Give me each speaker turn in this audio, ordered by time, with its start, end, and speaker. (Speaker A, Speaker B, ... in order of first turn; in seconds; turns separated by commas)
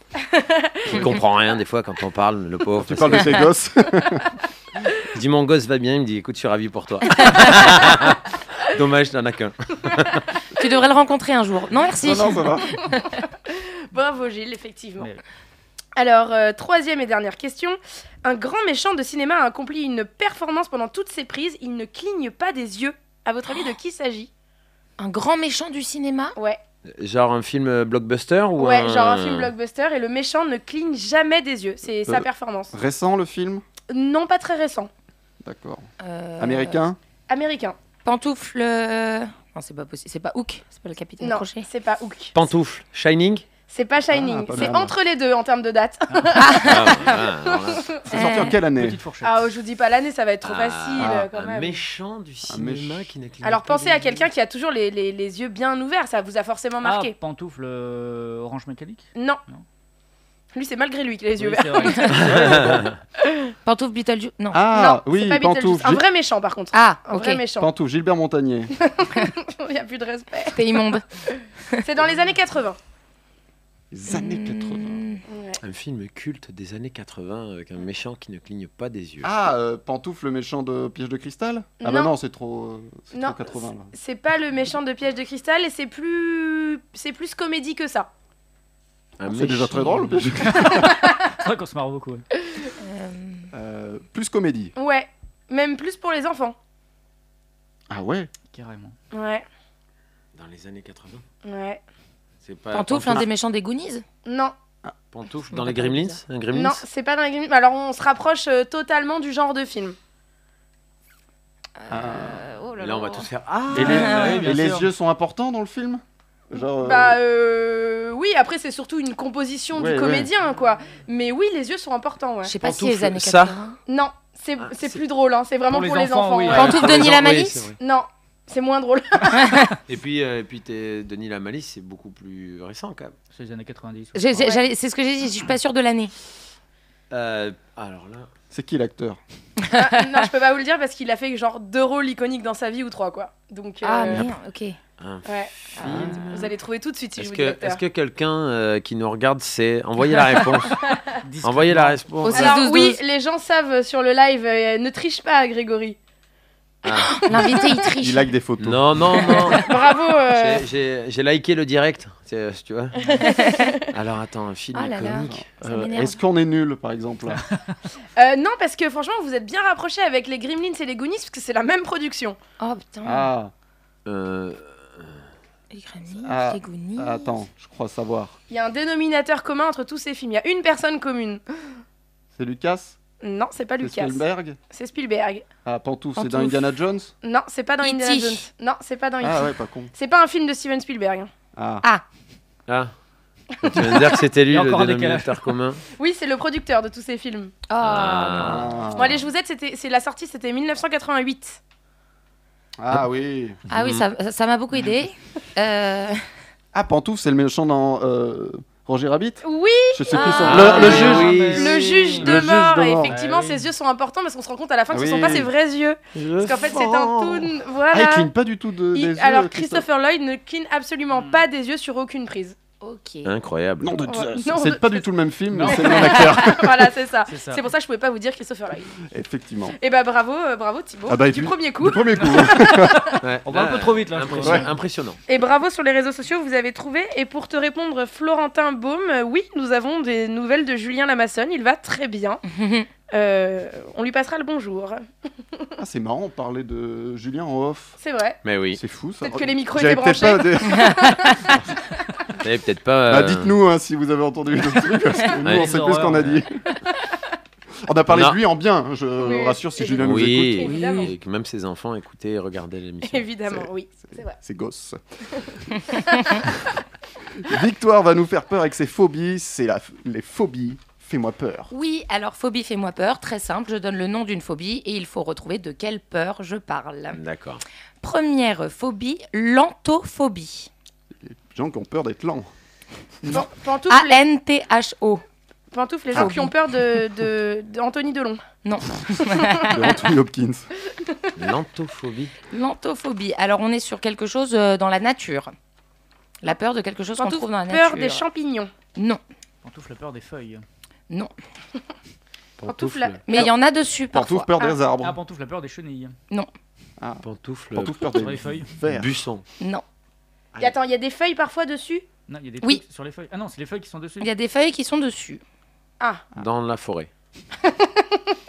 Speaker A: 0.2-0.9, Speaker B: 0.9-3.4, Speaker C: 2.8-4.3, Speaker B: 5.1-10.2, Speaker D: 10.6-13.0, Speaker C: 12.0-12.8, Speaker A: 13.5-15.1, Speaker A: 15.9-24.3, Speaker D: 25.0-26.3, Speaker B: 26.9-29.5, Speaker A: 28.6-32.7, Speaker C: 32.1-33.6, Speaker A: 33.9-34.9, Speaker C: 35.4-37.0, Speaker D: 36.0-36.8, Speaker A: 37.3-37.8, Speaker D: 38.0-41.6, Speaker A: 41.2-42.3, Speaker B: 42.3-43.5, Speaker A: 43.7-46.8, Speaker C: 44.1-44.9, Speaker E: 46.1-46.4, Speaker D: 46.4-47.3, Speaker B: 46.6-47.9, Speaker A: 47.7-48.0, Speaker D: 48.1-48.6, Speaker C: 48.1-49.0, Speaker E: 48.6-49.5, Speaker A: 49.2-51.8, Speaker B: 50.4-54.2, Speaker C: 51.0-51.3, Speaker C: 52.5-53.1, Speaker A: 53.4-57.1, Speaker E: 56.8-59.6, Speaker A: 59.1-59.4, Speaker A: 60.5-62.3, Speaker E: 61.4-62.9, Speaker B: 62.3-62.9, Speaker A: 63.2-63.5, Speaker D: 63.6-64.7, Speaker C: 64.5-66.0, Speaker A: 64.7-67.7, Speaker D: 66.7-67.4, Speaker C: 67.6-68.7, Speaker A: 68.8-70.6, Speaker D: 70.5-71.0, Speaker A: 71.8-72.8, Speaker C: 73.9-75.0, Speaker D: 74.1-75.2, Speaker A: 75.3-75.6, Speaker B: 75.6-79.3, Speaker C: 79.2-83.9, Speaker A: 81.8-82.1, Speaker A: 83.1-88.1, Speaker B: 89.2-90.2, Speaker C: 89.2-91.0, Speaker E: 90.5-92.2, Speaker D: 92.8-93.5, Speaker C: 93.5-94.7, Speaker A: 94.8-96.5, Speaker C: 97.9-98.3, Speaker E: 98.5-98.9, Speaker A: 99.1-99.4, Speaker B: 100.3-101.2, Speaker A: 101.4-101.8, Speaker B: 102.4-103.3, Speaker D: 102.7-104.0, Speaker A: 104.2-104.5, Speaker B: 105.1-106.8, Speaker D: 105.5-106.2, Speaker A: 106.5-110.0, Speaker D: 111.8-114.5, Speaker C: 111.9-112.4, Speaker B: 112.8-114.5, Speaker C: 113.7-117.2, Speaker E: 113.8-114.9, Speaker A: 116.8-122.5, Speaker C: 119.7-120.3, Speaker D: 122.4-123.8, Speaker B: 122.6-123.5, Speaker A: 123.9-126.7, Speaker E: 125.7-126.9, Speaker D: 126.5-127.7, Speaker B: 126.5-127.8, Speaker A: 127.8-129.4, Speaker D: 129.3-129.7, Speaker B: 129.9-133.1, Speaker E: 133.3-134.2, Speaker D: 134.2-136.1, Speaker B: 137.1-138.3, Speaker C: 138.5-139.2, Speaker A: 139.7-144.2, Speaker D: 143.8-144.8, Speaker B: 145.0-146.4, Speaker A: 145.2-145.5, Speaker D: 145.8-146.4, Speaker C: 145.9-146.1, Speaker A: 146.3-147.8, Speaker B: 147.2-150.9, Speaker E: 151.2-152.2, Speaker B: 151.4-152.6, Speaker D: 152.2-153.0, Speaker A: 152.3-156.0, Speaker B: 156.8-157.2, Speaker D: 157.1-158.2, Speaker A: 157.4-157.7, Speaker C: 158.0-159.5, Speaker B: 158.6-159.7, Speaker A: 159.6-160.6, Speaker B: 160.3-163.1, Speaker A: 163.1-163.8, Speaker D: 163.2-163.7, Speaker B: 163.9-165.4, Speaker D: 164.7-166.2, Speaker C: 165.1-167.4, Speaker A: 168.2-172.4, Speaker D: 172.6-173.3, Speaker C: 173.0-173.5, Speaker B: 174.1-175.1, Speaker D: 175.7-177.3, Speaker C: 176.2-178.3, Speaker A: 178.5-181.4, Speaker C: 182.3-183.0, Speaker A: 183.2-185.4, Speaker C: 183.8-184.6, Speaker C: 185.6-187.1, Speaker D: 186.2-186.7, Speaker A: 187.2-191.3, Speaker D: 187.8-188.4, Speaker C: 189.2-189.9, Speaker C: 191.5-191.8, Speaker B: 192.7-192.9, Speaker B: 193.6-195.8, Speaker E: 194.5-195.5, Speaker A: 196.0-197.5, Speaker D: 197.7-198.7, Speaker B: 197.8-198.9, Speaker C: 198.4-199.2, Speaker A: 198.9-201.6, Speaker C: 202.8-203.6, Speaker D: 203.7-206.2, Speaker B: 203.7-204.0, Speaker C: 206.7-211.4, Speaker A: 209.4-218.3, Speaker D: 210.1-210.8, Speaker B: 210.4-211.8, Speaker E: 210.6-212.4, Speaker C: 212.2-213.1, Speaker E: 213.1-213.7, Speaker C: 214.9-215.5, Speaker B: 216.1-217.5, Speaker C: 217.9-219.8, Speaker A: 218.9-222.6, Speaker D: 222.8-223.3, Speaker B: 223.2-224.0, Speaker C: 223.8-226.9, Speaker A: 224.1-225.1, Speaker E: 225.5-226.4, Speaker A: 225.7-228.9, Speaker E: 227.3-227.6, Speaker C: 229.1-229.8, Speaker A: 229.8-233.1, Speaker C: 231.1-233.1, Speaker B: 233.2-235.2, Speaker E: 233.4-234.7, Speaker A: 235.3-242.4, Speaker D: 242.5-242.9, Speaker A: 243.1-245.0, Speaker C: 245.8-248.0, Speaker A: 248.0-248.4, Speaker B: 248.4-248.8, Speaker C: 248.7-251.7, Speaker A: 249.2-251.4, Speaker B: 252.4-253.5, Speaker C: 253.1-256.6, Speaker B: 255.4-255.7, Speaker E: 255.5-256.4, Speaker C: 257.8-260.8, Speaker B: 258.1-258.4, Speaker A: 259.2-260.1, Speaker B: 260.0-263.3, Speaker A: 260.6-261.1, Speaker A: 263.1-264.3, Speaker C: 263.5-265.6, Speaker A: 265.9-266.4, Speaker C: 267.4-271.7, Speaker D: 271.7-277.2, Speaker B: 277.1-277.6, Speaker D: 278.0-280.7, Speaker C: 281.2-282.5, Speaker A: 283.3-284.2, Speaker D: 283.3-285.2, Speaker A: 285.7-288.4, Speaker D: 286.1-286.5, Speaker D: 288.6-289.8, Speaker C: 289.7-290.7, Speaker B: 291.3-292.3, Speaker D: 292.5-295.5, Speaker D: 296.4-298.2, Speaker A: 297.2-298.7, Speaker E: 299.6-300.6, Speaker B: 302.6-303.2, Speaker A: 302.6-303.5, Speaker D: 303.3-304.5, Speaker C: 304.1-305.2, Speaker E: 305.0-306.1, Speaker C: 307.0-309.2, Speaker B: 307.2-308.2, Speaker E: 308.1-308.7, Speaker B: 308.9-309.4, Speaker A: 310.6-312.0, Speaker E: 312.3-314.3, Speaker D: 314.2-315.4, Speaker B: 316.4-317.1, Speaker A: 317.7-318.2